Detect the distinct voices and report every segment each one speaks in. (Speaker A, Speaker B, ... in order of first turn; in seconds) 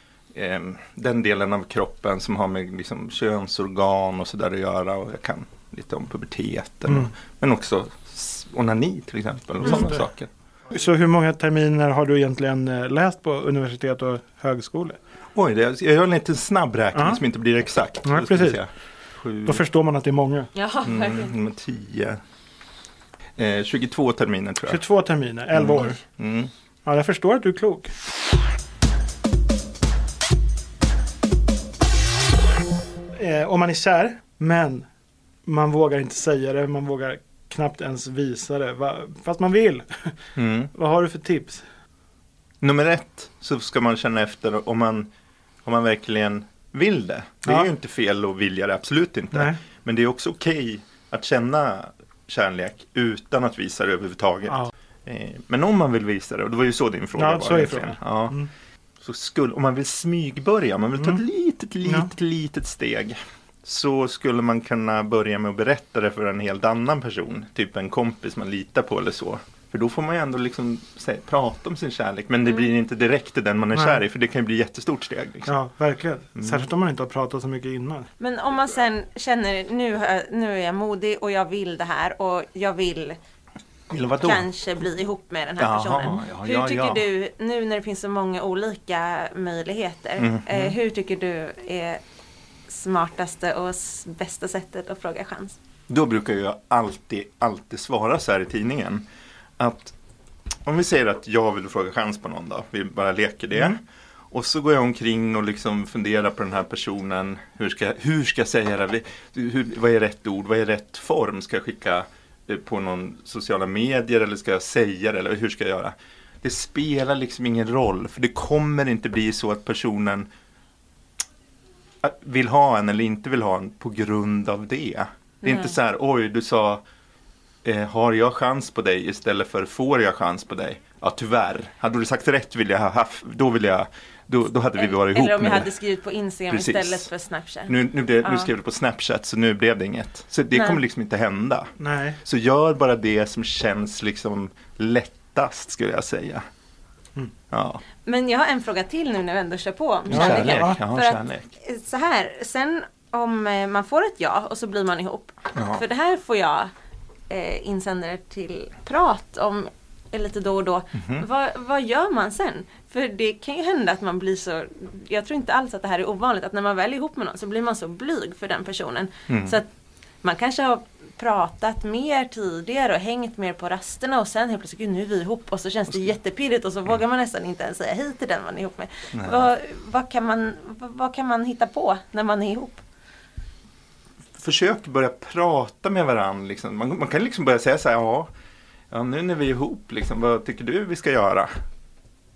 Speaker A: 0.3-10.3, 15.3-19.6, 20.8-22.2, 23.4-24.8, 25.5-26.5, 40.4-40.7, 42.6-45.1, 45.6-58.4, 59.0-75.5, 76.4-76.7, 83.9-84.5, 85.6-87.0, 90.2-90.8, 95.9-99.1, 99.6-99.9, 100.6-103.8, 104.3-120.3, 122.0-126.8, 127.6-135.7, 136.5-137.1, 137.7-146.4, 147.5-147.8, 150.1-151.5, 155.5-155.8, 160.9-161.2, 169.3-169.6, 179.1-179.5, 184.4-188.3, 188.9-191.5
Speaker B: 9.6-10.0, 10.7-15.0, 16.9-17.2, 18.0-18.6, 19.4-20.5, 24.7-26.0, 26.9-27.9, 33.1-34.9, 35.5-40.2, 40.7-41.6, 47.5-47.7, 49.3-49.6, 57.1-58.5, 61.8-62.1, 73.7-74.0, 75.5-78.1, 141.8-142.2, 150.1-150.8
Speaker C: 20.5-21.3, 78.2-83.2, 84.2-92.0, 92.7-95.6, 125.4-125.7, 134.8-138.5, 140.5-140.8, 148.0-156.7, 157.3-169.7, 170.2-182.8